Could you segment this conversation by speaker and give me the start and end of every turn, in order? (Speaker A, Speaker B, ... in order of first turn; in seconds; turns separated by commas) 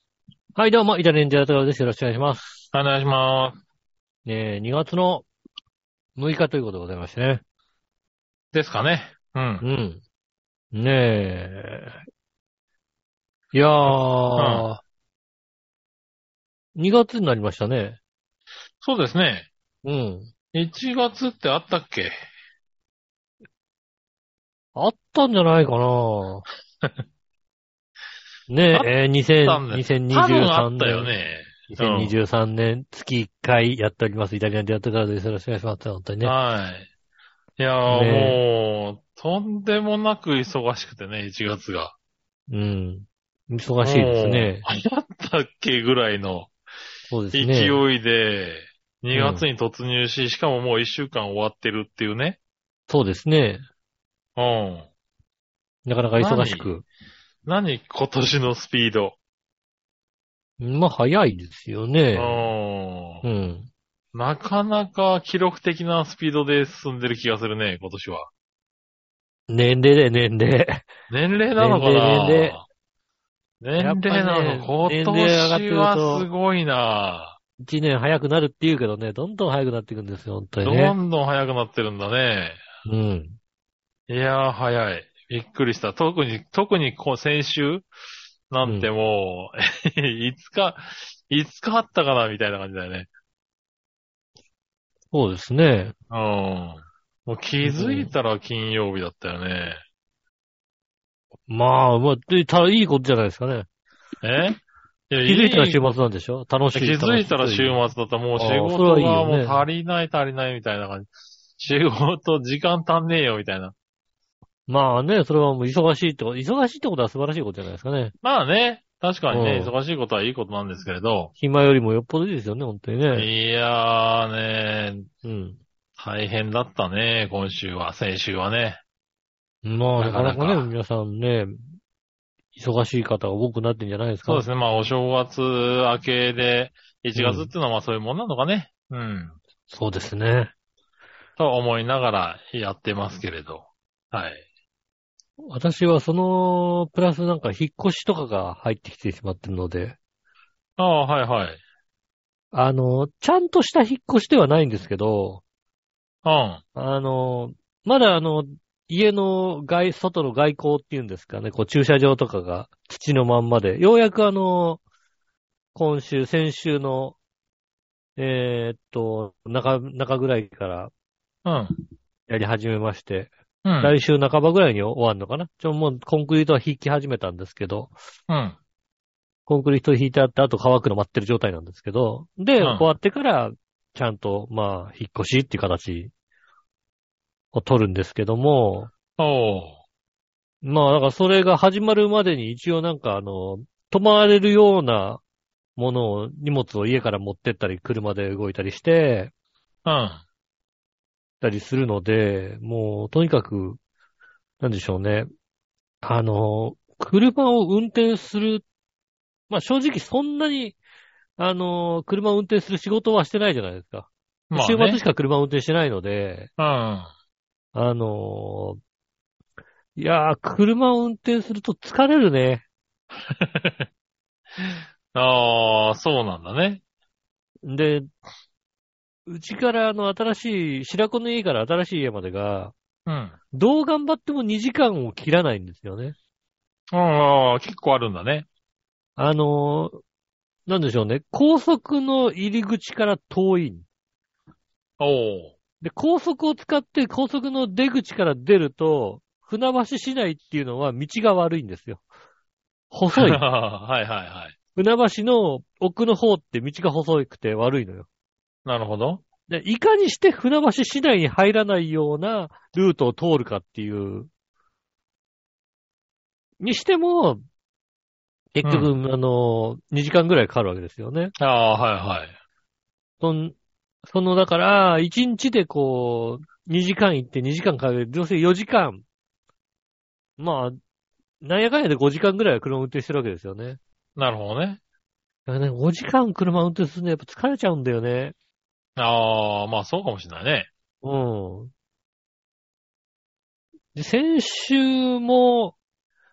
Speaker A: 0.6-2.6, Speaker B: 2.7-3.6, Speaker A: 4.2-5.3, Speaker A: 6.2-7.4, Speaker B: 8.5-9.6, Speaker A: 9.6-10.0, Speaker A: 10.7-11.9, Speaker A: 13.5-14.8, Speaker B: 13.9-14.7, Speaker A: 16.8-18.0, Speaker B: 18.8-19.5, Speaker A: 19.8-20.3, Speaker B: 20.5-22.1, Speaker A: 24.8-26.4, Speaker A: 28.5-31.1, Speaker B: 29.4-32.1, Speaker A: 31.7-36.3, Speaker B: 36.2-36.9, Speaker B: 37.6-42.0, Speaker A: 37.9-38.4, Speaker A: 42.5-44.6, Speaker B: 43.8-46.5, Speaker A: 47.1-47.8, Speaker B: 47.3-52.4, Speaker A: 49.1-49.5, Speaker A: 52.9-53.6, Speaker B: 54.4-54.9, Speaker A: 55.9-56.9, Speaker B: 56.2-56.7, Speaker B: 57.5-59.2, Speaker A: 60.6-62.5, Speaker B: 62.1-63.2, Speaker A: 63.2-63.7, Speaker B: 64.1-68.3, Speaker A: 69.5-70.8, Speaker B: 71.1-72.7, Speaker A: 71.6-72.6, Speaker B: 73.6-77.4, Speaker A: 73.8-76.3, Speaker A: 77.6-81.0, Speaker B: 80.6-82.6, Speaker A: 82.8-83.4, Speaker B: 84.1-87.9, Speaker B: 88.5-93.1, Speaker A: 88.6-88.9, Speaker A: 95.1-96.0, Speaker B: 96.1-99.8, Speaker A: 97.6-98.1, Speaker A: 101.5-103.7, Speaker B: 104.2-104.6, Speaker B: 105.1-105.8, Speaker A: 105.3-107.8, Speaker B: 106.7-113.7, Speaker A: 108.4-109.7, Speaker A: 114.7-118.1, Speaker B: 118.2-121.3, Speaker A: 119.3-119.7, Speaker A: 121.4-123.3, Speaker B: 123.2-125.1, Speaker A: 125.2-125.6, Speaker B: 126.0-128.8, Speaker A: 129.6-131.6, Speaker B: 130.0-130.7, Speaker A: 132.6-134.4, Speaker B: 134.3-139.4, Speaker A: 137.2-137.5, Speaker A: 139.7-140.5, Speaker B: 141.4-144.4, Speaker A: 145.5-150.0, Speaker B: 150.8-151.6, Speaker A: 152.5-155.4, Speaker B: 156.2-156.6, Speaker A: 156.8-164.8, Speaker A: 165.7-167.2, Speaker A: 168.2-170.9, Speaker B: 171.4-171.7, Speaker A: 172.3-177.9, Speaker B: 173.7-173.9, Speaker B: 178.3-178.6, Speaker A: 179.5-186.1, Speaker B: 182.6-182.9, Speaker A: 187.5-188.9, Speaker B: 189.2-189.8, Speaker A: 190.6-195.2, Speaker A: 195.8-199.3, Speaker B: 199.8-200.2, Speaker A: 201.4-203.8, Speaker A: 204.6-205.3, Speaker A: 206.0-208.7, Speaker A: 209.5-210.8, Speaker A: 211.4-216.5, Speaker B: 214.5-215.0, Speaker B: 216.6-217.1, Speaker A: 217.7-218.8, Speaker A: 220.0-222.6, Speaker B: 223.2-223.9, Speaker B: 224.6-226.8, Speaker A: 227.7-228.1, Speaker A: 229.3-232.7, Speaker B: 233.1-233.4, Speaker A: 233.5-236.2, Speaker B: 236.9-238.5, Speaker A: 239.2-240.0, Speaker A: 240.7-243.8, Speaker B: 245.0-245.6, Speaker A: 245.8-252.0, Speaker A: 252.9-253.4, Speaker B: 253.1-254.6, Speaker A: 254.8-258.1, Speaker B: 258.6-259.2, Speaker A: 259.5-264.3, Speaker A: 266.6-267.4, Speaker A: 268.5-271.3, Speaker B: 268.6-268.9, Speaker B: 271.4-272.3, Speaker A: 273.2-273.6, Speaker A: 274.1-279.0, Speaker A: 280.4-280.8, Speaker A: 281.4-283.8, Speaker B: 284.2-284.8, Speaker A: 285.5-288.4, Speaker B: 289.0-290.7, Speaker A: 291.0-291.7, Speaker A: 293.9-295.8